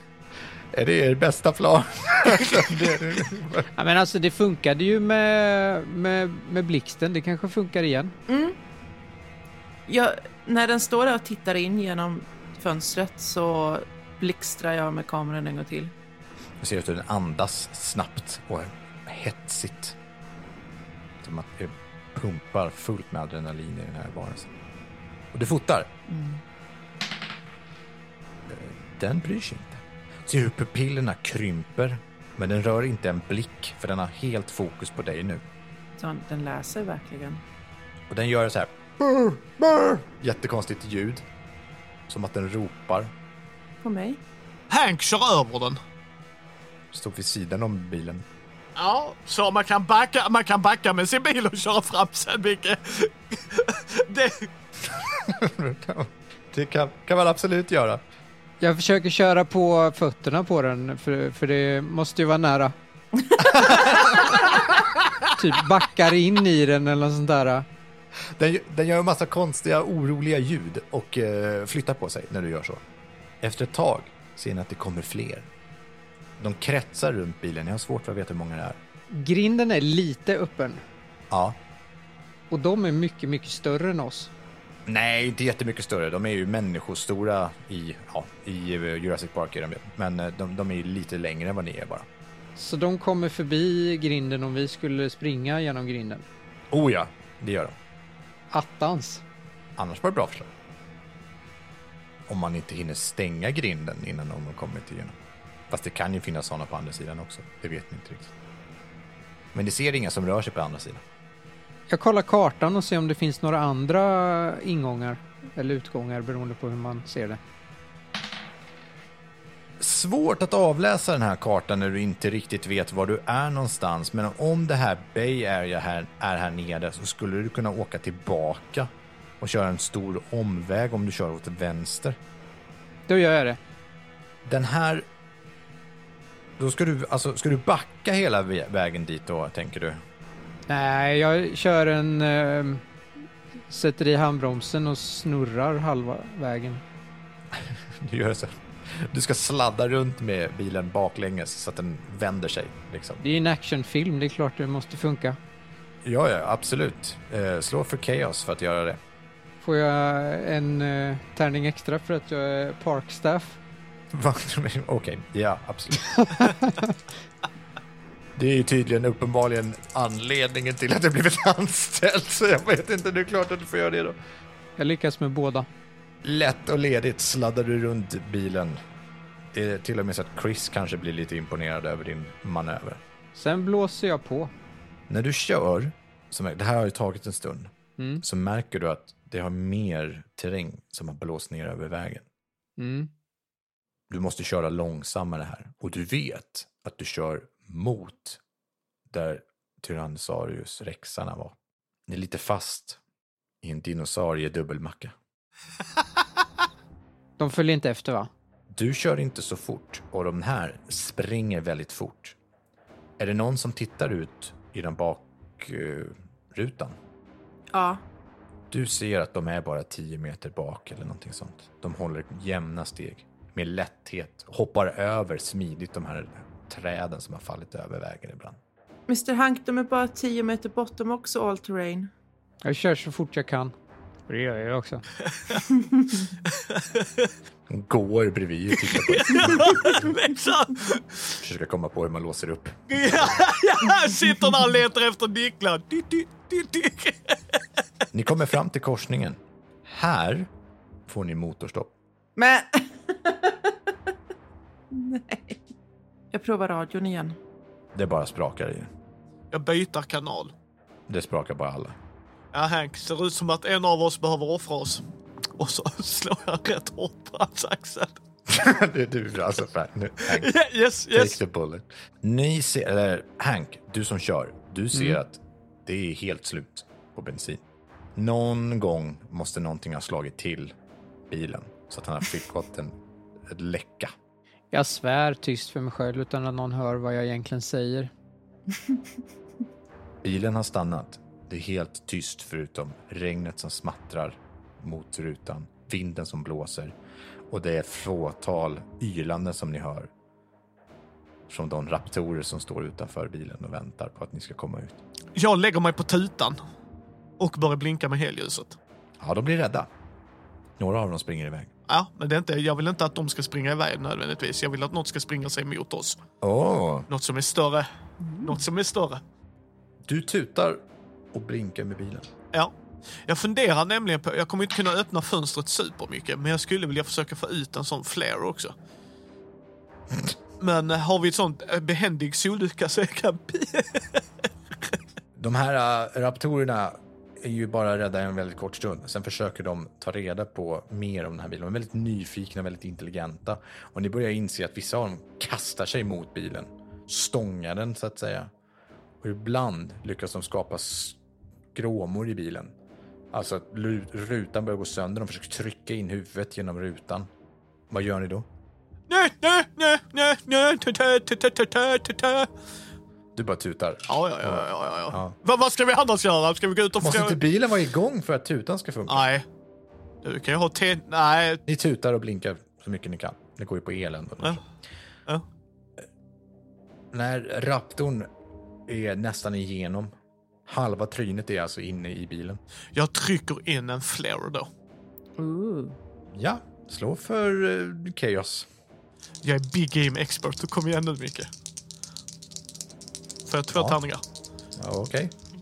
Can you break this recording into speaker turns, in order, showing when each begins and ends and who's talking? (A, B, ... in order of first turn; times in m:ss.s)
0:00.7-0:03.7 A
0:03.7-0:08.1 B
0:08.3-0:08.6 C
0:09.9-0:15.9 C
0:16.6-0:20.0 A
0:21.2-0:24.5 A
0:25.3-0:25.9 A
0:26.1-0:26.4 C
0:28.5-0:35.4 A
0:36.0-0:37.4 C
0:38.1-0:41.2 A
0:42.1-0:43.1 A
0:43.8-0:44.2 C
0:44.7-0:45.8 D
0:46.9-0:48.2 A
0:48.8-0:54.5 D
0:55.2-0:58.0 A
0:58.6-1:02.7 B
1:03.4-1:04.4 A
1:05.4-1:07.6 B
1:08.4-1:12.8 A
1:13.4-1:15.5 A
1:16.4-1:18.8 A
1:19.1-1:20.8 B
1:21.3-1:21.6 A
1:22.5-1:24.3 B
1:24.8-1:32.1 A
1:32.6-1:36.2 B
1:36.7-1:37.7 A
1:38.5-1:39.2 B
1:39.8-1:40.5 A
1:42.3-1:45.1 A
1:45.7-1:48.3 A
1:49.5-1:51.0 A
1:51.9-1:57.4 B
1:59.8-2:12.2 A
2:13.1-2:13.6 B
2:14.4-2:15.0 A
2:16.6-2:20.0 A
2:20.7-2:22.8 B
2:23.7-2:26.8 B
2:27.5-2:33.2 A
2:33.2-2:35.4 B
2:36.0-2:39.0 A
2:39.6-2:43.6 B
2:44.1-2:46.5 A
2:46.2-2:46.8 B
2:48.4-2:54.2 A
2:54.8-2:55.7 B
2:56.2-2:58.8 A
2:59.5-3:03.0 A
3:03.3-3:04.5 B
3:05.1-3:12.2 A
3:08.0-3:08.2 B
3:12.8-3:13.1 B
3:14.1-3:18.4 A
3:19.1-3:21.5 A
3:22.1-3:23.0 A
3:23.6-3:25.1 A
3:27.4-3:28.3 B
3:28.7-3:32.4 A
3:33.2-3:37.0 A
3:37.7-3:38.0 C
3:38.7-3:48.6 A
3:49.1-3:52.1 C
3:52.6-3:53.7 B
3:54.3-3:55.0 B
3:55.2-3:55.6 D
3:55.7-3:56.2 C
3:56.4-3:57.3 D
3:57.7-4:00.0 A
3:58.8-4:01.4 D
4:01.4-4:02.8 A
4:02.9-4:07.6 D
4:08.1-4:10.5 A
4:11.1-4:11.9 A
4:12.4-4:13.9 C
4:14.9-4:15.6 C
4:16.3-4:17.4 C
4:17.9-4:18.9 A
4:19.5-4:20.5 D
4:21.1-4:21.9 A
4:22.5-4:25.0 D
4:25.6-4:28.2 D
4:28.5-4:30.5 A
4:30.3-4:31.4 D
4:31.1-4:37.6 A
4:38.2-4:40.7 A
4:41.3-4:42.9 A
4:43.5-4:44.1 A
4:44.7-4:48.1 B
4:50.2-4:56.9 A
4:57.5-5:00.1 A
5:01.5-5:05.0 A
5:05.3-5:06.6 D
5:07.4-5:08.8 D
5:09.2-5:09.9 A
5:10.8-5:11.7 A
5:11.9-5:16.2 D
5:16.4-5:17.1 A
5:17.1-5:17.9 D
5:18.2-5:18.6 C
5:18.4-5:19.2 D
5:20.1-5:20.8 A
5:21.3-5:22.3 A
5:23.2-5:28.7 D
5:30.6-5:34.2 D
5:35.4-5:48.5 A
5:49.2-5:51.2 A
5:51.7-5:52.7 A
5:53.3-5:57.3 A
5:57.9-5:58.5 A
5:59.1-6:02.5 D
6:03.4-6:05.4 A
6:04.1-6:07.4 D
6:07.0-6:09.2 A
6:09.1-6:09.4 D
6:10.2-6:11.6 D
6:11.7-6:14.6 A
6:17.1-6:18.3 A
6:18.9-6:20.1 A
6:20.6-6:22.6 A
6:22.9-6:24.7 D
6:25.4-6:26.0 C
6:26.3-6:28.7 A
6:29.4-6:31.5 D
6:33.4-6:34.2 D
6:34.8-6:35.3 A